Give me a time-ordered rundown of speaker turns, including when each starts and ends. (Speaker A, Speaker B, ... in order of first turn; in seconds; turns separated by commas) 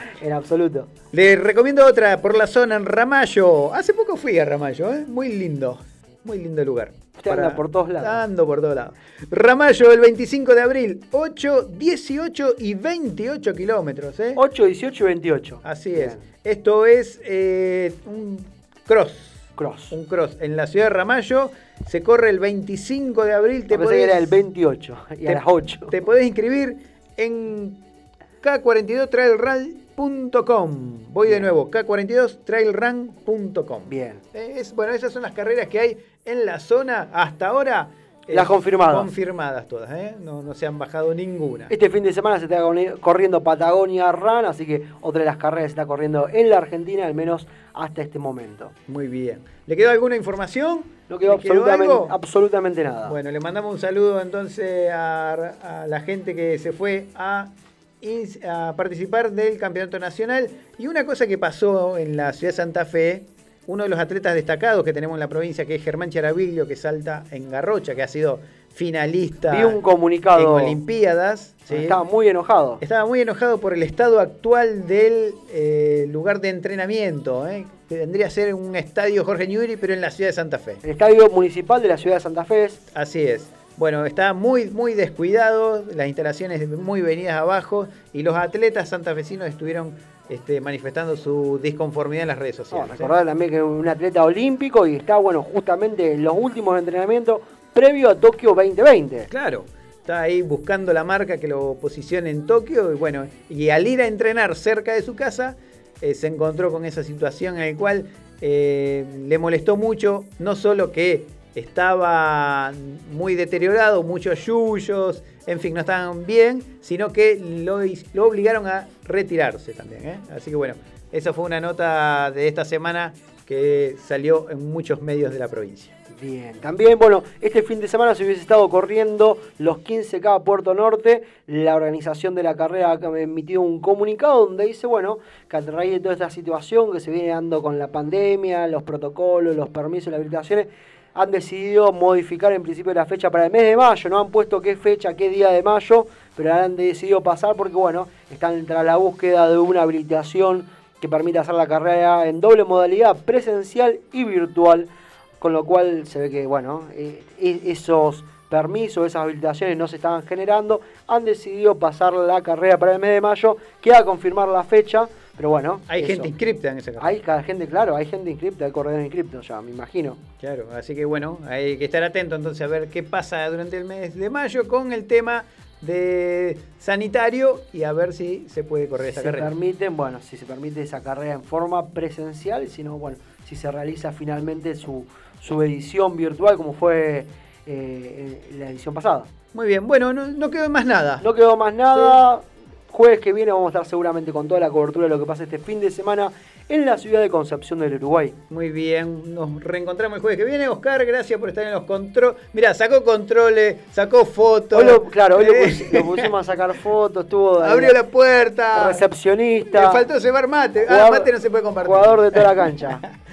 Speaker A: 0.2-0.9, Speaker B: 1.1-14.4, Speaker A: 7.2-8.2, Speaker A: 14.4-16.2, Speaker B: 15.6-24.3, Speaker A: 19.6-19.9, Speaker A: 23.7-25.9, Speaker B: 25.3-27.8, Speaker B: 28.4-41.7, Speaker A: 33.9-34.2, Speaker A: 38.3-39.1, Speaker A: 41.7-48.7, Speaker B: 48.9-52.1, Speaker A: 51.1-53.1, Speaker B: 53.1-69.8, Speaker A: 69.5-70.8, Speaker B: 70.3-72.0, Speaker A: 71.7-72.8, Speaker B: 72.8-80.8, Speaker A: 80.8-82.8, Speaker B: 82.9-93.1, Speaker A: 92.7-99.3, Speaker B: 99.3-125.9, Speaker A: 126.1-154.9, Speaker A: 155.4-166.3, Speaker B: 165.9-167.1, Speaker A: 167.0-170.2, Speaker B: 170.4-179.5, Speaker A: 179.1-189.3, Speaker B: 189.5-191.2, Speaker A: 191.2-198.4, Speaker B: 198.5-206.2, Speaker A: 204.7-207.9, Speaker B: 207.6-209.0, Speaker A: 208.8-210.1, Speaker B: 209.7-212.4, Speaker A: 210.8-211.3, Speaker A: 211.8-213.0